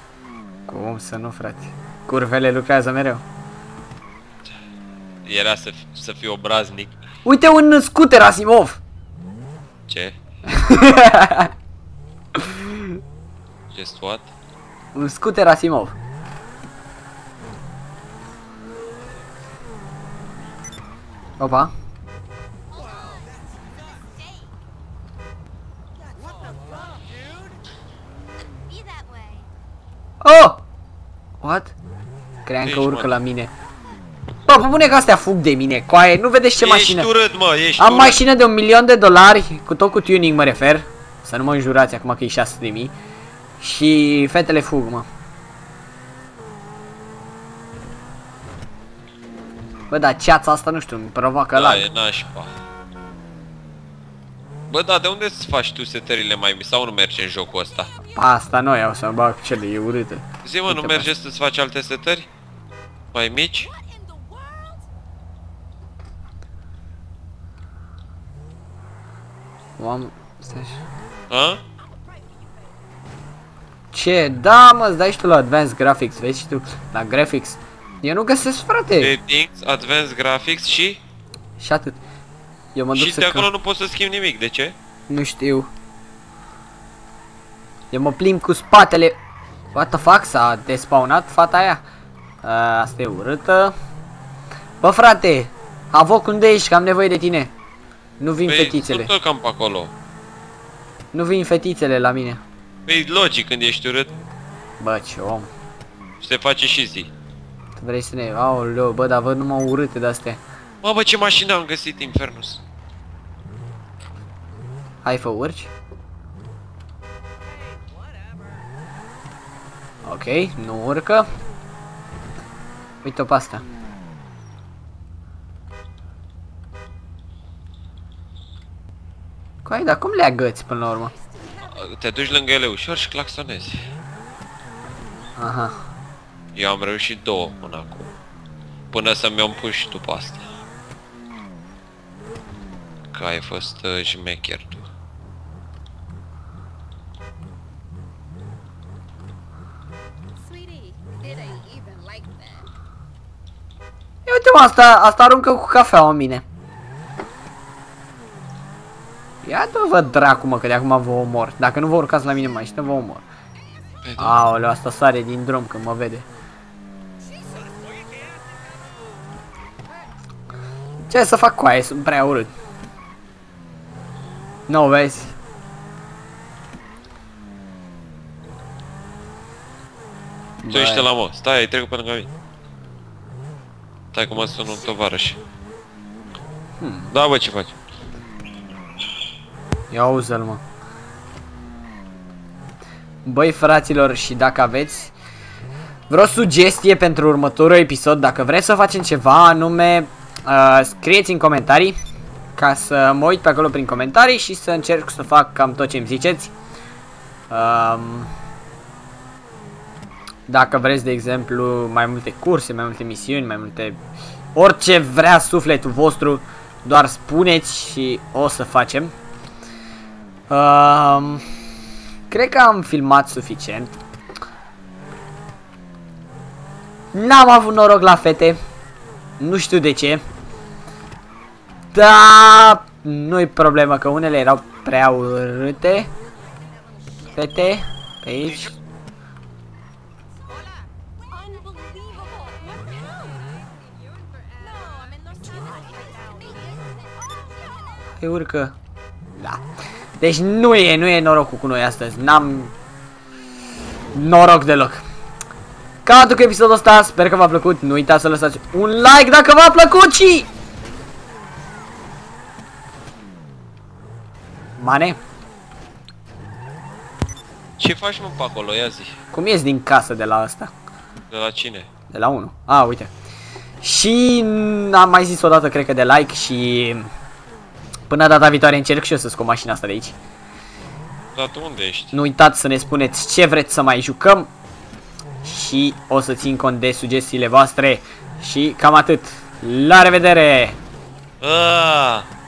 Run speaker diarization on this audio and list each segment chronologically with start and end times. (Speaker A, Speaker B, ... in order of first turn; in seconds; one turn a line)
Speaker A: 0.7-3.2
Speaker B: 5.2-7.0
Speaker A: 7.2-8.8
Speaker B: 9.9-10.1
Speaker A: 10.5-11.5
Speaker B: 13.7-14.3
Speaker A: 14.9-15.9
Speaker A: 21.4-21.7
Speaker A: 30.2-30.6
Speaker A: 31.4-31.7
Speaker A: 32.5-33.5
Speaker B: 32.6-33.1
Speaker A: 34.5-37.1
Speaker B: 36.6-38.2
Speaker A: 37.8-42.9
Speaker A: 43.6-45.0
Speaker A: 49.9-51.9
Speaker B: 51.5-52.5
Speaker B: 54.7-57.9
Speaker A: 58.1-61.1
Speaker B: 60.4-62.3
Speaker B: 63.1-63.7
Speaker C: 64.1-64.7
Speaker A: 69.8-70.8
Speaker B: 71.3-71.6
Speaker A: 73.9-79.1
Speaker B: 79.0-81.0
Speaker A: 81.6-82.0
Speaker A: 82.7-83.5
Speaker B: 82.9-84.7
Speaker A: 85.1-85.7
Speaker A: 87.9-89.2
Speaker A: 89.7-91.8
Speaker A: 92.4-93.7
Speaker A: 94.8-97.5
Speaker A: 98.2-99.1
Speaker B: 98.5-99.9
Speaker A: 101.1-102.4
Speaker B: 102.9-104.1
Speaker A: 104.8-105.5
Speaker B: 106.2-107.1
Speaker A: 107.8-110.4
Speaker B: 110.8-112.6
Speaker A: 115.0-115.7
Speaker A: 120.0-121.2
Speaker A: 123.0-123.6
Speaker A: 129.7-131.1
Speaker B: 131.6-133.8
Speaker A: 135.4-135.7
Speaker B: 136.5-138.1
Speaker B: 138.9-140.4
Speaker B: 143.1-144.8
Speaker C: 150.5-152.7
Speaker A: 154.2-156.4
Speaker A: 159.4-163.2
Speaker B: 164.1-164.4
Speaker A: 164.2-166.2
Speaker A: 171.1-172.5
Speaker A: 174.7-175.3
Speaker A: 180.6-181.1
Speaker B: 180.7-182.3
Speaker B: 184.1-185.4
Speaker A: 186.8-187.1
Speaker B: 187.1-187.7
Speaker A: 189.9-190.6
Speaker A: 193.2-195.1
Speaker A: 196.1-201.9
Speaker A: 202.6-206.5
Speaker A: 207.5-208.3
Speaker A: 210.5-214.0
Speaker A: 214.5-219.1
Speaker A: 220.5-221.4
Speaker A: 222.3-223.9
Speaker A: 227.1-228.6
Speaker A: 229.4-230.2
Speaker A: 231.9-236.1
Speaker A: 237.3-238.7
Speaker B: 238.4-238.7
Speaker C: 241.4-243.5
Speaker C: 244.6-247.8
Speaker A: 248.2-248.7
Speaker A: 249.3-249.6
Speaker A: 250.2-252.7
Speaker A: 254.1-255.0
Speaker A: 256.0-260.5
Speaker A: 264.8-265.2
Speaker B: 267.8-269.2
Speaker A: 269.3-270.7
Speaker B: 271.3-271.9
Speaker A: 272.1-273.1
Speaker A: 273.8-277.1
Speaker A: 278.1-280.1
Speaker B: 281.3-282.1
Speaker A: 282.1-284.5
Speaker A: 285.4-290.8
Speaker B: 291.4-292.2